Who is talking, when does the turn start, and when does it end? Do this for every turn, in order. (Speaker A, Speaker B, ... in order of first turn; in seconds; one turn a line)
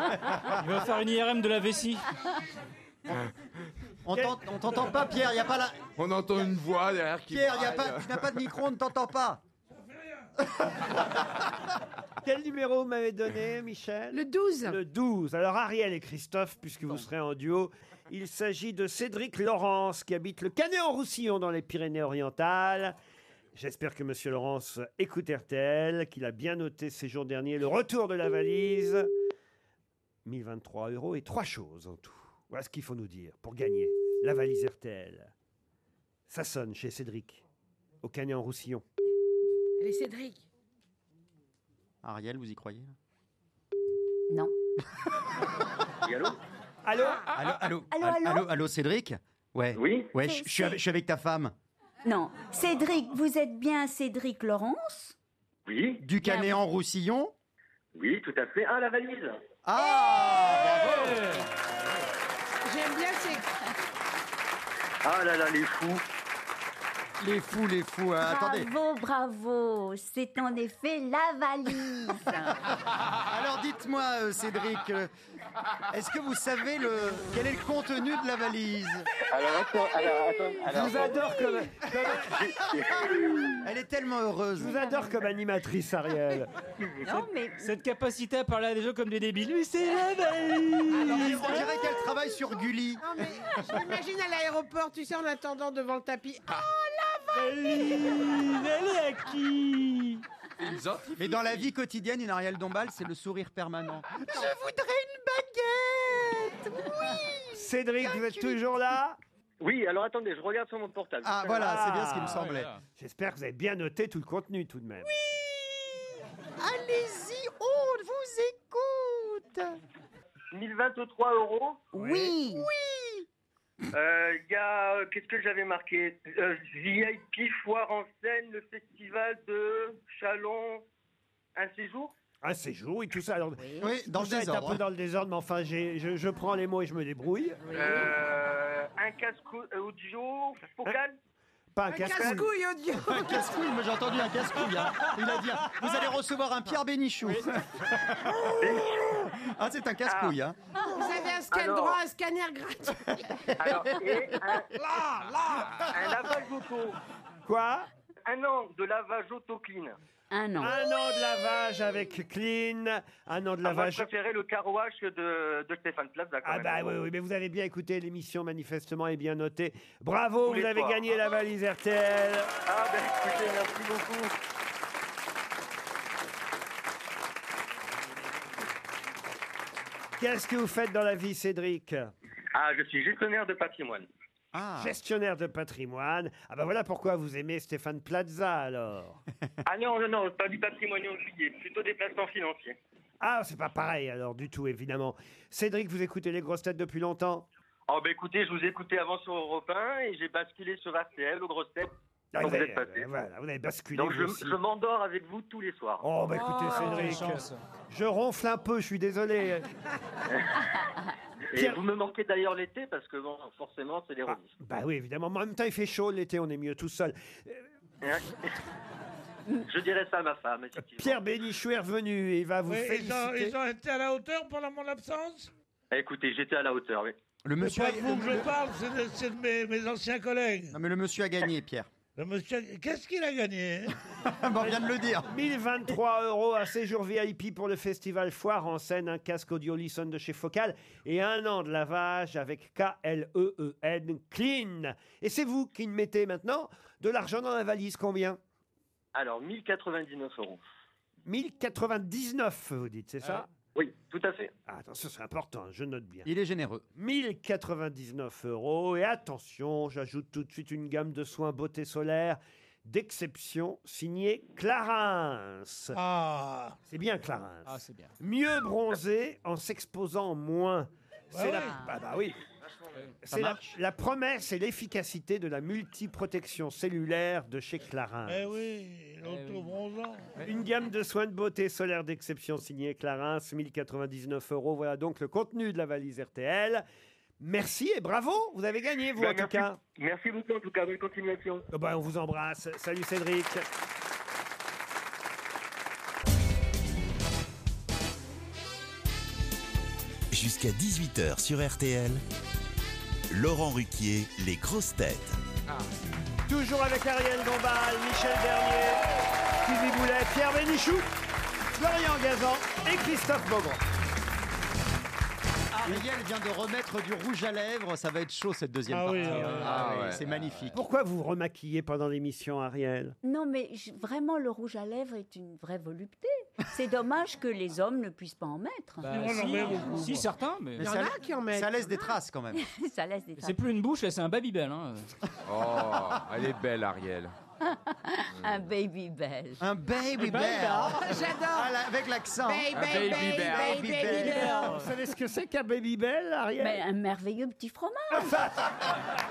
Speaker A: 0.5-2.1
Speaker B: 3.1-3.3
Speaker C: 4.0-5.9
Speaker B: 5.9-8.2
Speaker C: 7.3-9.4
Speaker D: 9.7-10.3
Speaker E: 12.2-22.9
Speaker F: 14.1-14.8
Speaker E: 23.5-29.1
Speaker E: 30.2-35.3
Speaker E: 36.3-37.4
Speaker E: 38.0-38.8
Speaker F: 39.8-40.5
Speaker C: 42.0-42.9
Speaker G: 46.0-46.4
Speaker E: 46.8-47.2
Speaker C: 47.3-51.5
Speaker H: 47.9-48.5
Speaker G: 49.7-50.1
Speaker H: 50.2-50.8
Speaker H: 52.0-55.1
Speaker G: 55.6-56.0
Speaker C: 56.0-57.3
Speaker H: 56.2-56.6
Speaker G: 57.9-59.4
Speaker C: 59.6-61.2
Speaker A: 60.7-61.5
Speaker F: 62.6-63.4
Speaker G: 65.0-66.0
Speaker C: 67.2-68.7
Speaker H: 68.2-72.5
Speaker C: 73.3-75.1
Speaker C: 75.9-79.1
Speaker G: 79.3-81.1
Speaker E: 80.6-82.3
Speaker C: 80.7-81.1
Speaker H: 80.9-81.6
Speaker C: 81.8-84.8
Speaker G: 82.2-83.1
Speaker E: 84.5-86.5
Speaker H: 87.0-87.7
Speaker A: 87.6-91.8
Speaker C: 91.0-93.0
Speaker F: 93.0-97.0
Speaker A: 97.3-100.2
Speaker B: 100.6-101.7
Speaker C: 101.1-108.6
Speaker E: 107.5-109.2
Speaker G: 109.6-111.7
Speaker C: 111.2-112.7
Speaker E: 111.5-112.4
Speaker A: 112.2-112.8
Speaker E: 113.0-115.1
Speaker C: 115.1-115.9
Speaker C: 116.6-119.7
Speaker G: 120.5-121.8
Speaker H: 121.9-122.7
Speaker E: 121.9-122.3
Speaker C: 122.6-123.2
Speaker G: 123.9-130.8
Speaker G: 131.5-132.1
Speaker E: 132.4-137.6
Speaker H: 133.6-133.9
Speaker C: 133.8-134.8
Speaker H: 137.6-138.1
Speaker G: 137.7-141.2
Speaker E: 141.7-142.5
Speaker F: 141.9-143.6
Speaker C: 143.0-150.6
Speaker G: 148.6-149.0
Speaker G: 150.1-150.4
Speaker F: 150.9-153.2
Speaker G: 151.5-152.0
Speaker G: 153.6-154.7
Speaker G: 155.9-157.0
Speaker E: 157.4-157.9
Speaker G: 158.2-159.9
Speaker H: 160.3-160.8
Speaker E: 160.6-164.1
Speaker G: 163.6-166.9
Speaker E: 166.4-172.5
Speaker G: 170.4-171.0
Speaker G: 172.7-174.3
Speaker E: 180.2-182.1
Speaker G: 182.5-184.1
Speaker C: 184.5-184.9
Speaker E: 184.8-189.2
Speaker G: 189.6-192.8
Speaker E: 193.2-197.5
Speaker G: 197.9-203.1
Speaker E: 202.3-204.6
Speaker G: 203.9-206.0
Speaker E: 206.0-209.7
Speaker A: 206.3-207.6
Speaker E: 211.5-211.8
Speaker G: 211.5-214.5
Speaker E: 214.3-217.7
Speaker G: 218.0-218.3
Speaker G: 219.7-221.2
Speaker E: 220.9-223.6
Speaker D: 222.7-225.5
Speaker G: 225.9-227.2
Speaker C: 227.4-228.5
Speaker D: 227.6-230.8
Speaker C: 230.7-231.9
Speaker D: 232.2-233.9
Speaker C: 234.3-235.3
Speaker E: 234.6-248.4
Speaker G: 249.1-250.6
Speaker E: 251.2-253.5
Speaker G: 253.7-254.5
Speaker E: 254.7-256.3
Speaker C: 256.2-256.8
Speaker E: 256.9-266.0
Speaker D: 265.9-266.8
Speaker E: 266.9-272.4
Speaker A: 267.6-268.1
Speaker D: 271.3-271.8
Speaker E: 273.2-278.4
Speaker C: 273.3-273.8
Speaker D: 278.2-280.4
Speaker A: 279.2-279.7
Speaker E: 280.4-286.8
Speaker E: 287.4-289.8
Speaker G: 289.1-291.6
Speaker E: 291.7-293.6
Speaker I: 300.3-302.2
Speaker I: 303.3-305.4
Speaker E: 306.5-309.0
Speaker E: 309.6-311.1
Speaker E: 311.7-313.8
Speaker C: 315.8-320.8
Speaker D: 318.9-319.9
Speaker A: 319.2-319.9
Speaker B: 319.5-320.2
Speaker E: 320.7-323.1
Speaker H: 323.2-329.8
Speaker A: 329.0-330.9
Speaker D: 329.1-330.3
Speaker F: 330.8-331.9
Speaker C: 330.8-332.6
Speaker H: 332.5-333.6
Speaker A: 333.4-335.1
Speaker B: 335.4-337.3
Speaker H: 337.6-339.6
Speaker C: 339.6-344.6
Speaker A: 340.1-341.2
Speaker F: 340.9-341.8
Speaker F: 342.4-344.7
Speaker B: 342.7-344.0
Speaker A: 344.1-344.9
Speaker E: 344.4-346.8
Speaker H: 346.6-348.4
Speaker E: 348.1-348.9